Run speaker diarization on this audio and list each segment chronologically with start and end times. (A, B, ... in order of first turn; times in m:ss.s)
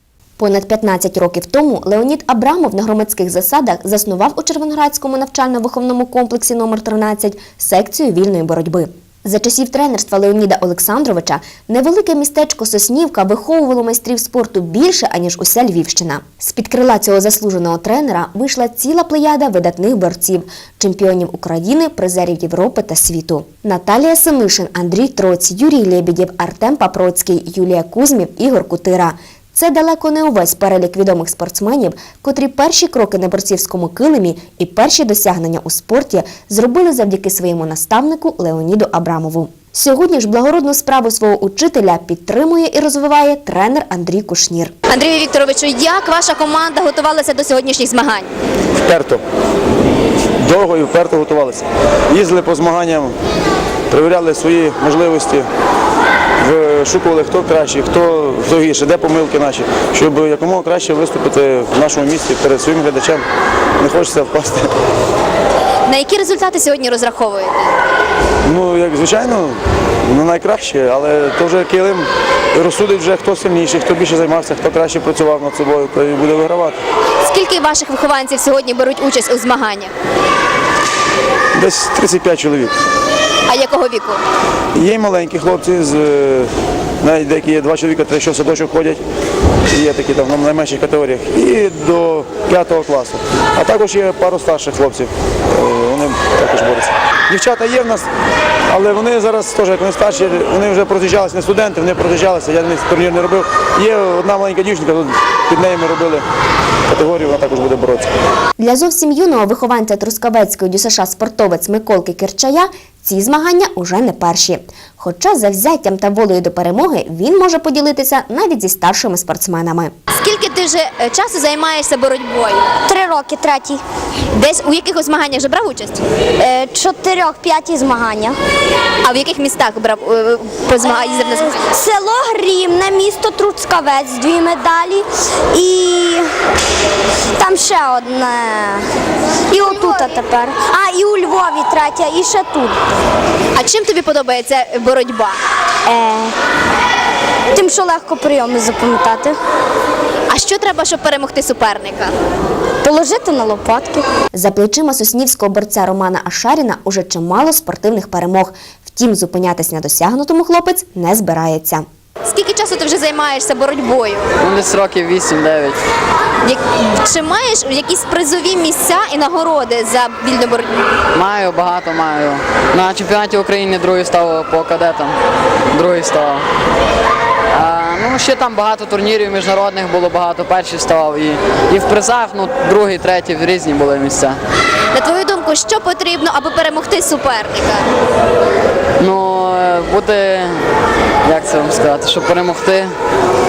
0:00.4-0:44.8 A
0:44.9-0:48.3 B
0:48.8-0:49.2 C
0:50.4-0:53.1 C
0:53.9-0:55.5 C
0:56.4-1:03.2 C
1:03.8-1:04.7 C
1:05.9-1:07.8 B
1:08.4-1:16.8 C
1:17.2-1:19.9 B
1:21.6-1:22.7 C
1:23.5-1:24.2 B
1:24.8-1:29.0 C
1:29.7-1:38.1 C
1:38.7-1:46.2 C
1:46.9-1:48.1 C
1:48.6-1:59.9 A
2:00.1-2:02.7 B
2:03.1-2:03.8 D
2:04.3-2:06.0 B
2:06.4-2:08.3 D
2:09.0-2:11.7 B
2:11.8-2:15.0 D
2:15.5-2:16.2 D
2:17.4-2:18.7 D
2:19.5-2:22.7 D
2:23.5-2:25.4 B
2:25.9-2:26.3 D
2:27.6-2:29.3 D
2:30.3-2:32.1 B
2:32.8-2:34.0 D
2:34.3-2:41.8 A
2:42.2-2:44.3 B
2:44.4-2:45.8 E
2:46.4-2:50.8 B
2:51.1-2:55.1 E
2:55.7-2:56.4 E
2:57.5-3:04.4 E
3:04.9-3:07.9 B
3:09.0-3:10.7 E
3:11.2-3:12.9 E